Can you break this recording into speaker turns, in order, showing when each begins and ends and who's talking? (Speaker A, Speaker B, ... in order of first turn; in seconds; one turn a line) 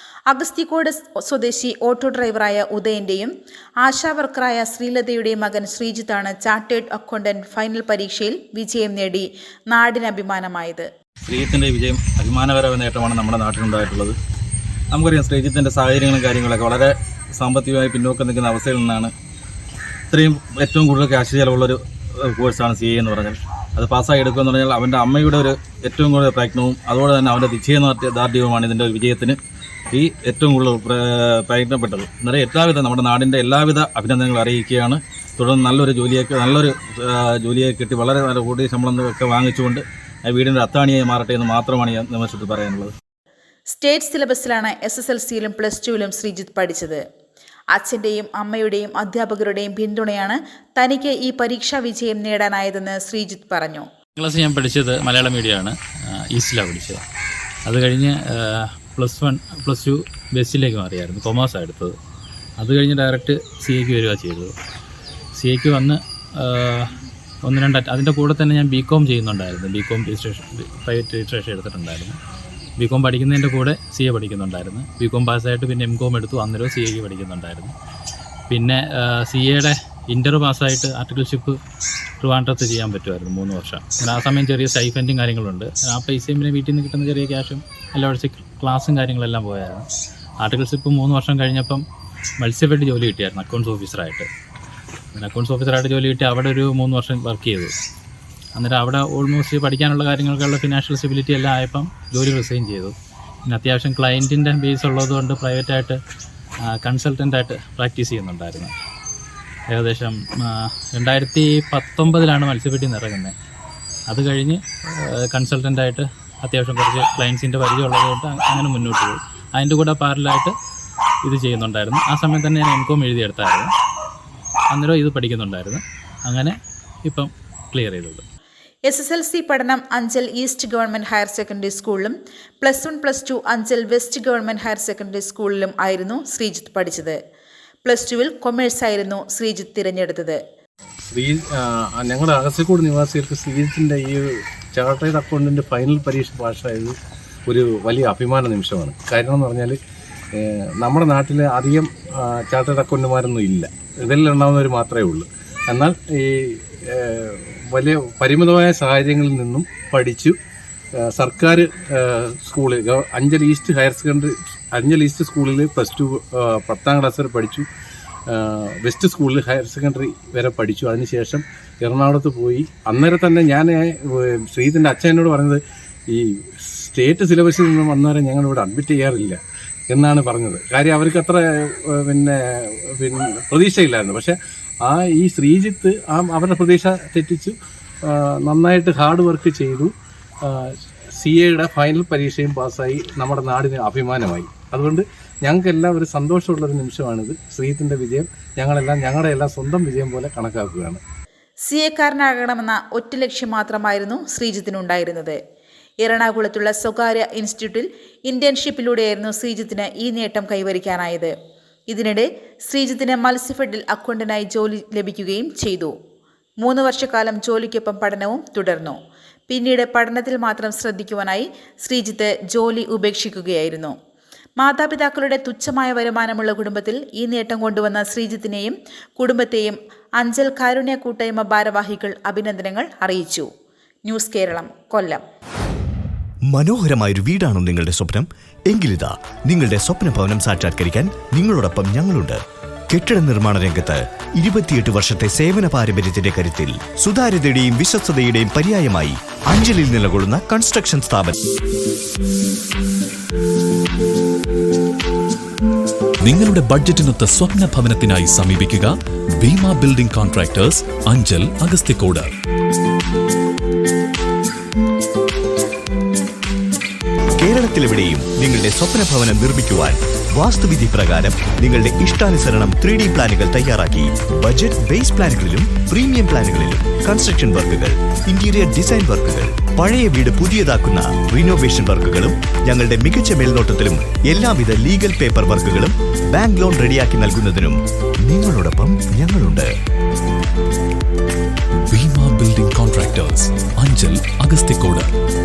Speaker A: 0.3-10.9
Speaker B: 11.3-14.2
Speaker B: 14.9-19.1
Speaker B: 20.1-29.4
Speaker B: 29.9-42.9
Speaker A: 43.7-47.0
Speaker A: 47.7-53.9
Speaker C: 54.2-57.0
Speaker C: 57.7-61.9
Speaker C: 62.6-64.5
Speaker C: 65.4-66.9
Speaker C: 67.5-72.2
Speaker C: 72.8-77.7
Speaker C: 78.5-81.6
Speaker C: 82.2-89.9
Speaker C: 90.4-91.8
Speaker C: 92.4-94.3
Speaker C: 95.1-97.7
Speaker C: 98.6-102.9
Speaker C: 103.5-106.0
Speaker C: 106.7-108.7
Speaker C: 109.7-113.3
Speaker C: 114.1-114.6
Speaker C: 115.1-120.5
Speaker C: 121.2-123.7
Speaker C: 124.7-126.5
Speaker C: 127.1-128.2
Speaker A: 128.9-137.2
Speaker A: 137.8-140.4
Speaker D: 141.1-146.9
Speaker D: 147.5-149.8
Speaker D: 150.3-160.3
Speaker D: 161.0-167.7
Speaker D: 168.3-179.4
Speaker D: 179.9-187.5
Speaker D: 188.1-189.9
Speaker D: 190.4-201.0
Speaker A: 201.7-205.4
Speaker A: 206.0-211.3
Speaker A: 211.9-215.9
Speaker A: 216.6-219.0
Speaker A: 219.5-223.9
Speaker A: 224.6-233.5
Speaker A: 234.1-235.2
Speaker E: 236.5-251.3
Speaker F: 256.2-262.3
Speaker E: 267.4-289.7
Speaker F: 291.9-295.1